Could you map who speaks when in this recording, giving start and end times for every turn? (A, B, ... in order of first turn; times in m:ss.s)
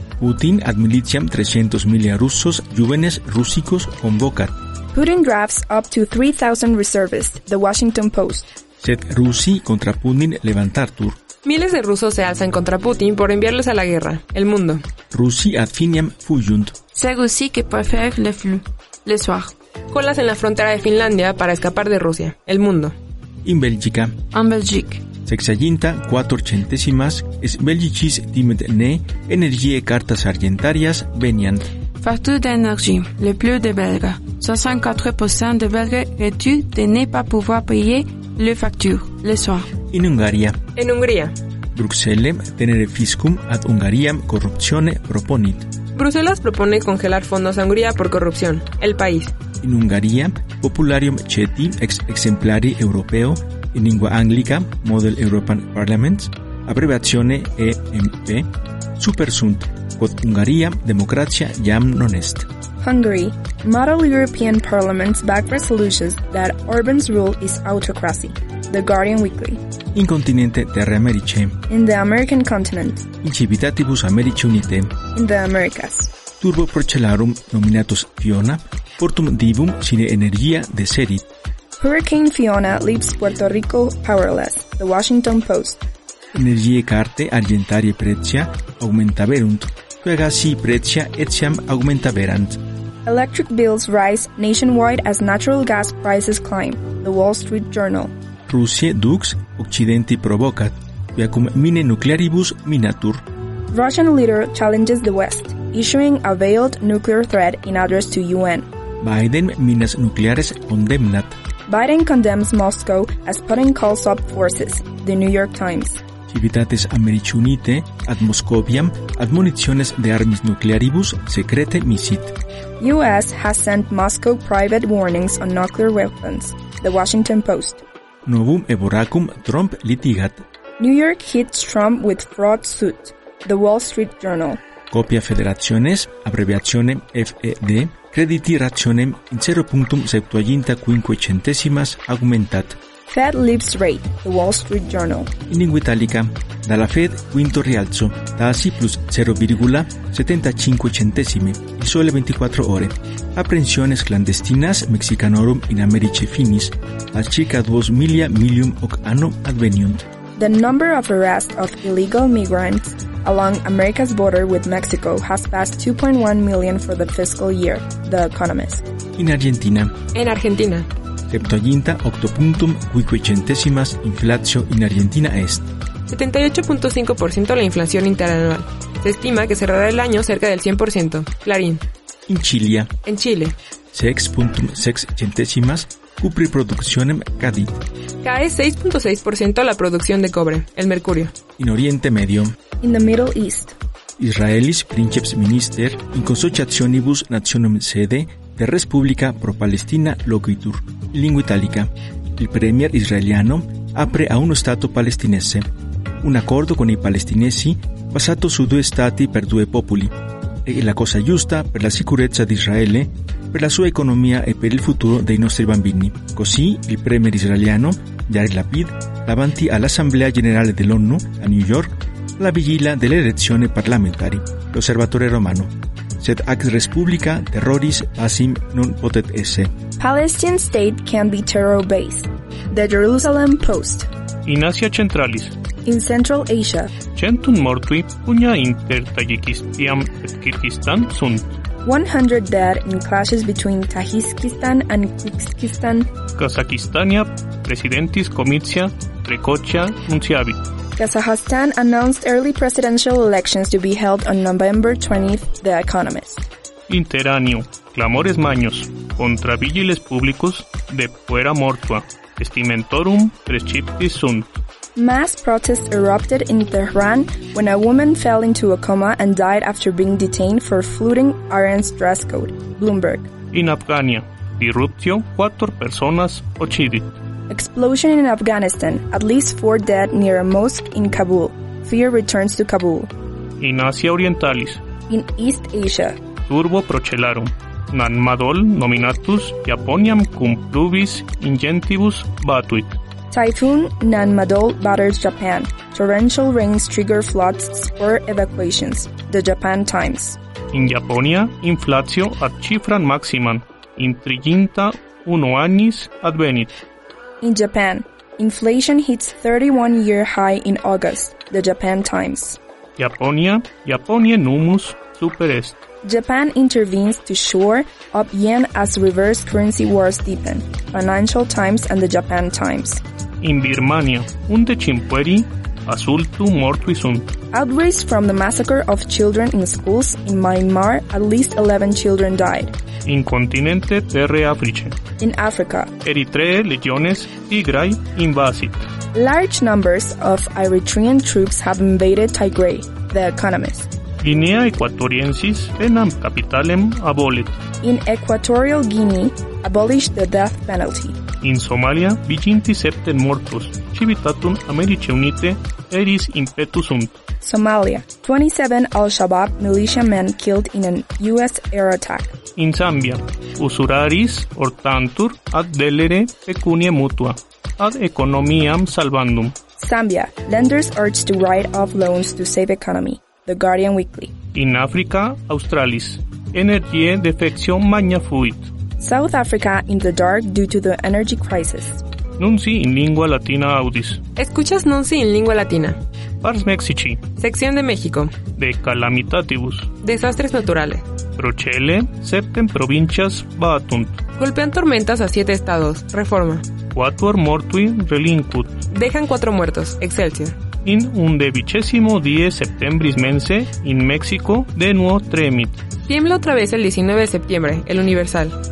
0:00.2-0:04.5 A
0:04.9-0:08.5 B
0:08.8-0:11.2 A
0:11.4-0:14.8 C
0:15.1-0:16.7 A
0:16.9-0:19.5 D
0:19.9-0:22.9 C
0:23.4-0:24.1 A
0:24.3-0:25.0 D
0:25.2-0:31.7 A
0:32.0-0:39.7 D
0:39.9-0:40.6 A
0:40.8-0:41.3 C
0:41.7-0:45.7 A
0:45.9-0:49.3 C
0:49.6-1:02.5 A
1:02.8-1:09.6 B
1:09.9-1:11.6 A
1:11.7-1:13.0 B
1:13.2-1:14.9 A
1:15.1-1:16.1 B
1:16.4-1:21.2 A
1:21.8-1:25.8 B
1:26.3-1:32.6 A
1:33.0-1:38.1 B
1:38.5-1:43.2 A
1:43.7-1:48.7 B
1:49.0-1:51.4 A
1:51.7-1:56.0 B
1:56.3-2:02.3 A
2:02.8-2:07.8 B
2:08.2-2:10.4 A
2:10.8-2:14.6 B
2:14.9-2:22.8 A
2:23.1-2:25.3 B
2:25.5-2:40.0 A
2:40.4-2:48.8 B
2:49.2-2:49.9 A
2:50.1-2:50.9 C
2:51.3-2:55.6 A
2:56.1-3:01.8 C
3:02.3-3:02.9 A
3:03.0-3:03.6 C
3:03.9-3:07.8 A
3:08.2-3:11.3 C
3:11.6-3:12.6 A
3:12.8-3:13.7 B
3:14.2-3:25.7 A
3:26.2-3:30.1 A
3:30.6-3:49.7 A
3:50.0-3:54.1 B
3:54.4-3:55.5 E
3:55.8-3:56.9 B
3:57.2-4:01.5 E
4:01.8-4:06.1 B
4:06.4-4:10.6 E
4:11.0-4:16.5 B
4:16.9-4:24.6 E
4:25.0-4:33.3 B
4:33.5-4:37.1 E
4:37.5-4:43.1 B
4:43.6-4:44.8 E
4:45.1-4:46.2 B
4:46.5-4:53.0 E
4:53.3-5:00.4 B
5:00.7-5:06.8 E
5:07.4-5:12.6 B
5:13.0-5:15.8 E
5:16.0-5:23.0 B
5:23.4-5:27.3 E
5:27.5-5:32.7 B
5:33.0-5:34.9 E
5:35.2-5:35.9 B
5:36.0-5:38.8 E
5:39.1-5:43.9 B
5:44.2-5:47.6 E
5:47.8-5:51.2 B
5:51.4-5:57.2 E
5:57.4-6:02.3 B
6:02.6-6:09.6 E
6:09.8-6:14.3 B
6:14.5-6:18.7 E
6:19.0-6:22.0 B
6:22.4-6:24.2 E
6:24.4-6:26.0 C
6:26.4-6:27.2 E
6:27.4-6:28.3 C
6:28.6-6:29.9 E
6:30.0-6:31.0 C
6:31.4-6:34.2 E
6:34.4-6:36.6 C
6:36.9-6:38.8 E
6:38.9-6:40.6 C
6:40.8-6:45.8 E
6:46.0-6:48.6 C